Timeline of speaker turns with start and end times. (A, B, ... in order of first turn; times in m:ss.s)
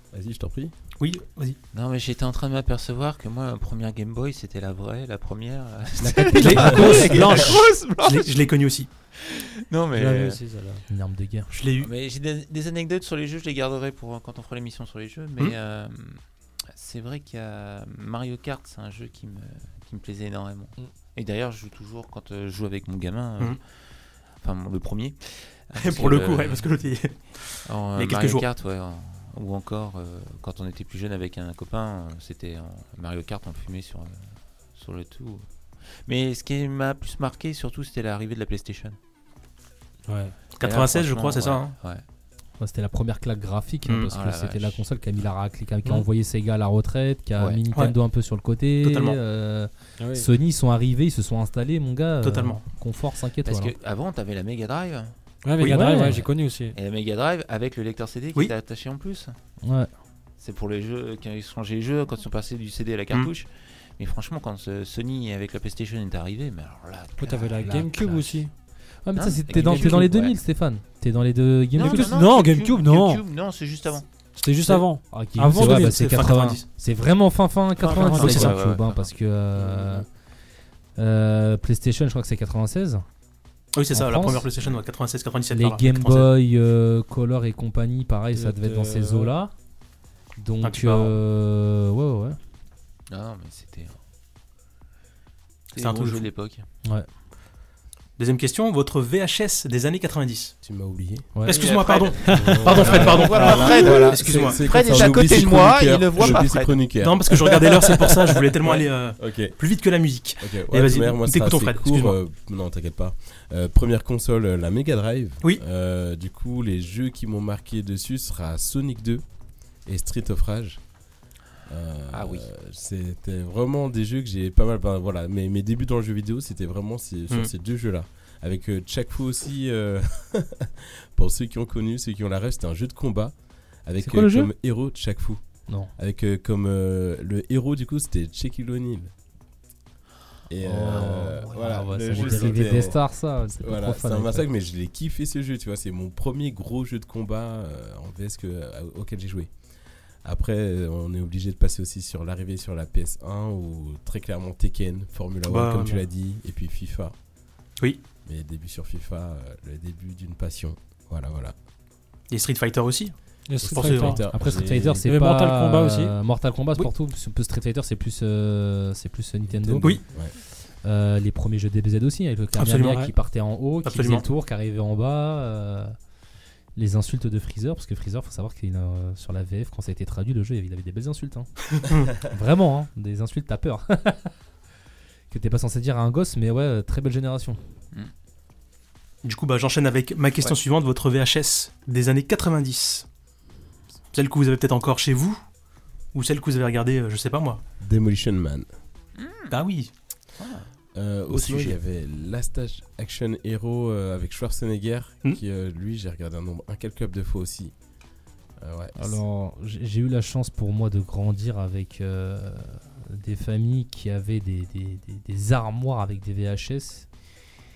0:00.1-0:00.7 A
0:01.0-0:01.6 B
0:01.7-0:08.4 C
0:06.0-0:07.4 D
0:06.4-0:08.9 B
0:09.2-0:10.4 C
0:09.9-0:10.8 E
0:10.9-0:11.5 D
0:11.5-0:11.9 B
0:11.7-0:23.6 C
0:24.4-0:26.7 C
0:25.8-0:28.4 B
0:27.7-0:39.0 C
0:40.1-0:40.4 E
0:40.6-0:41.7 B
0:40.6-0:42.0 C
0:42.6-0:53.7 D
0:44.1-0:44.8 C
0:48.8-0:49.2 B
0:50.0-0:50.3 E
0:52.2-0:52.6 B
0:53.4-0:59.4 C
0:55.4-0:56.8 E
0:55.6-0:56.2 D
0:59.6-0:59.9 D
1:00.4-1:08.5 C
1:07.2-1:08.5 E
1:09.0-1:12.2 D
1:09.2-1:10.5 C
1:09.6-1:10.0 E
1:11.7-1:14.0 C
1:11.8-1:13.2 E
1:14.4-1:16.2 E
1:15.1-1:20.1 D
1:15.6-1:16.7 B
1:17.8-1:19.2 C
1:17.9-1:18.6 E
1:19.6-1:20.1 A
1:21.0-1:23.0 D
1:23.7-1:26.3 B
1:23.9-1:24.5 D
1:25.5-1:29.5 D
1:28.3-1:29.4 E
1:30.4-1:32.4 D
1:30.6-1:31.2 B
1:33.1-1:34.0 C
1:35.7-1:36.7 C
1:35.8-1:36.3 B
1:38.2-1:40.5 B
1:40.6-1:41.4 A
1:41.4-1:43.2 D
1:41.4-1:45.2 B
1:41.5-1:46.9 C
1:42.3-1:49.6 A
1:47.0-1:52.2 B
1:50.4-1:59.2 A
1:59.8-2:00.8 A
2:01.7-2:13.3 A
2:02.1-2:02.5 C
2:13.8-2:15.4 A
2:14.0-2:14.5 D
2:16.0-2:19.1 A
2:20.5-2:29.5 A
2:20.6-2:24.5 D
2:21.5-2:21.8 C
2:22.1-2:22.8 E
2:30.2-2:37.2 A
2:35.5-2:36.0 B
2:38.2-2:41.6 A
2:42.3-2:44.2 B
2:43.5-2:44.3 E
2:43.6-2:45.1 A
2:44.3-2:56.0 D
2:45.0-2:46.2 E
2:49.5-2:50.3 A
2:52.6-2:53.1 B
2:52.8-2:53.1 E
2:53.8-2:54.3 B
2:56.8-3:04.3 D
3:01.8-3:02.1 B
3:05.3-3:07.6 D
3:09.2-3:13.0 B
3:14.1-3:15.4 B
3:16.1-3:17.6 B
3:17.8-3:18.7 A
3:19.2-3:19.6 C
3:19.5-3:19.9 B
3:20.4-3:20.7 C
3:21.0-3:27.7 A
3:28.6-3:29.2 A
3:29.0-3:37.1 D